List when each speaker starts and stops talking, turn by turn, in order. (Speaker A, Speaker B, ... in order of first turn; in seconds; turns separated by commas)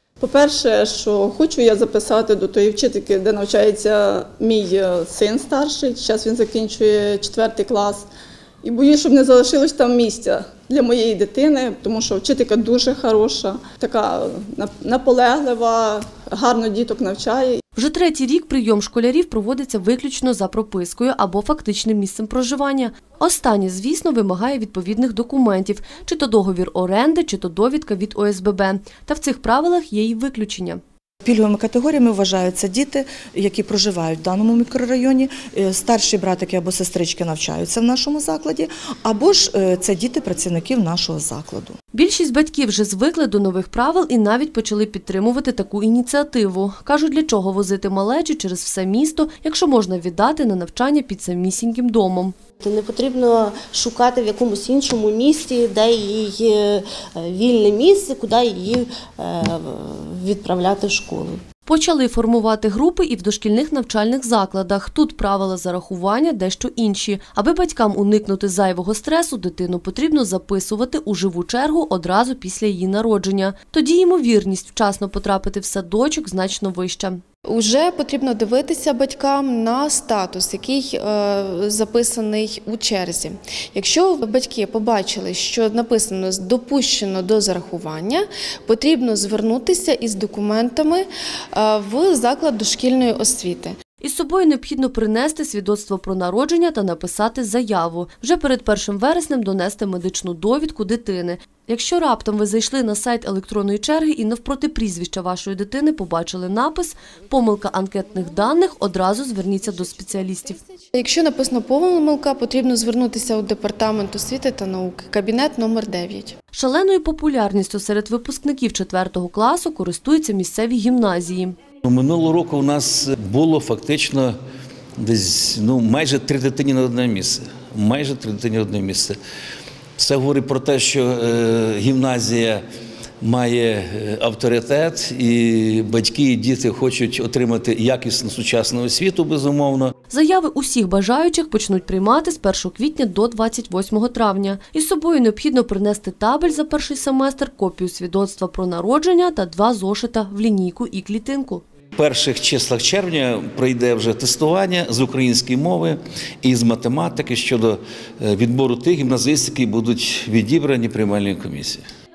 Speaker A: 0.2-8.1, Speaker A: 8.6-17.6, Speaker B: 17.8-30.8, Speaker C: 31.2-41.8, Speaker B: 41.9-52.4, Speaker D: 52.6-61.4, Speaker B: 61.7-77.2, Speaker E: 77.5-93.8, Speaker B: 94.0-110.6, Speaker E: 110.9-116.3, Speaker B: 116.5-121.6, Speaker F: 121.8-124.3, Speaker F: 125.0-129.2, Speaker F: 130.0-132.6, Speaker F: 133.2-139.9, Speaker B: 140.1-151.6, Speaker F: 152.0-161.8